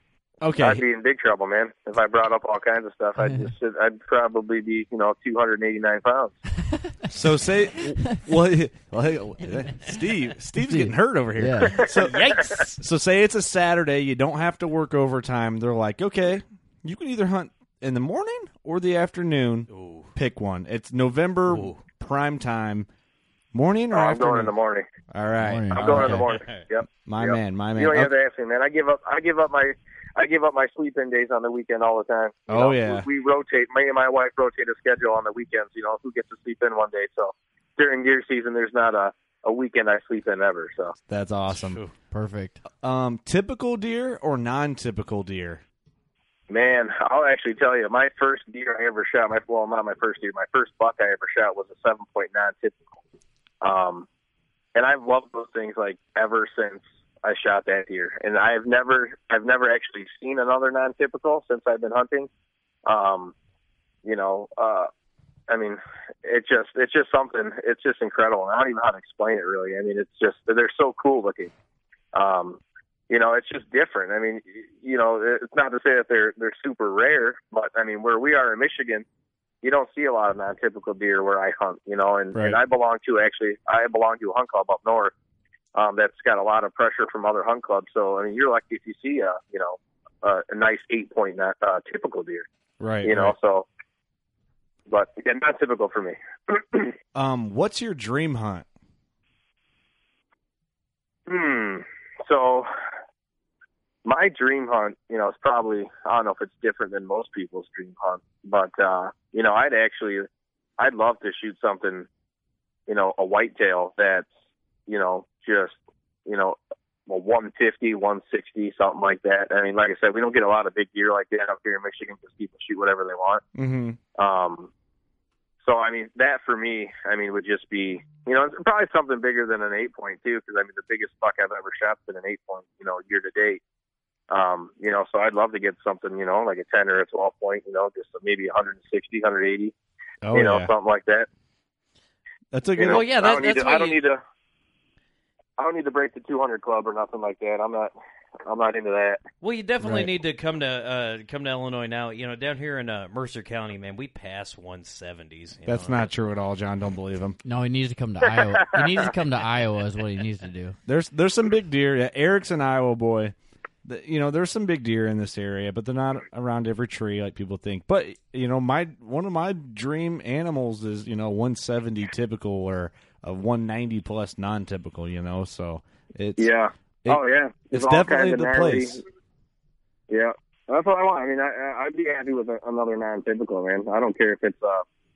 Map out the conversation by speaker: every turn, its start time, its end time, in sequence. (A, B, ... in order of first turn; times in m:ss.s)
0:00.4-0:00.8 A
0:00.6-0:06.4 B
0:07.1-0:22.9 A
0:10.7-0:11.8 C
0:11.8-0:12.8 D
0:11.9-0:12.4 B
0:19.7-0:20.1 D
0:21.5-0:21.8 D
0:23.5-0:24.5 A
0:23.9-0:24.9 B
0:25.1-0:28.1 A
0:25.4-0:26.2 C
0:25.7-0:41.0 B
0:26.2-0:26.6 D
0:32.5-0:33.1 A
0:41.1-0:41.8 A
0:41.5-0:41.9 D
0:42.1-0:42.6 C
0:42.8-0:45.6 A
0:46.5-0:52.8 B
0:53.6-0:54.1 B
0:54.8-1:02.3 B
1:02.9-1:03.3 B
1:04.0-1:04.9 B
1:05.5-1:11.5 B
1:12.1-1:19.0 B
1:19.6-1:25.1 B
1:25.8-1:32.5 B
1:32.8-1:33.4 A
1:33.0-1:33.7 B
1:34.9-1:37.0 B
1:37.2-1:38.7 A
1:41.3-1:42.7 B
1:44.0-1:50.3 B
1:50.8-1:52.1 B
1:52.9-1:54.3 B
1:54.9-2:03.4 B
2:03.6-2:04.0 A
2:04.2-2:04.7 B
2:05.6-2:13.6 B
2:14.3-2:19.7 B
2:20.2-2:20.7 A
2:20.3-2:21.3 B
2:22.5-2:23.0 A
2:22.8-2:24.2 B
2:22.8-2:24.0 D
2:25.6-2:27.9 B
2:28.5-2:29.2 B
2:29.4-2:36.1 D
2:29.8-2:30.1 A
2:35.7-2:37.4 A
2:37.4-2:40.8 C
2:40.9-2:43.3 A
2:43.8-2:56.5 A
2:56.4-2:59.0 B
2:57.0-2:59.0 A
3:00.1-3:04.8 B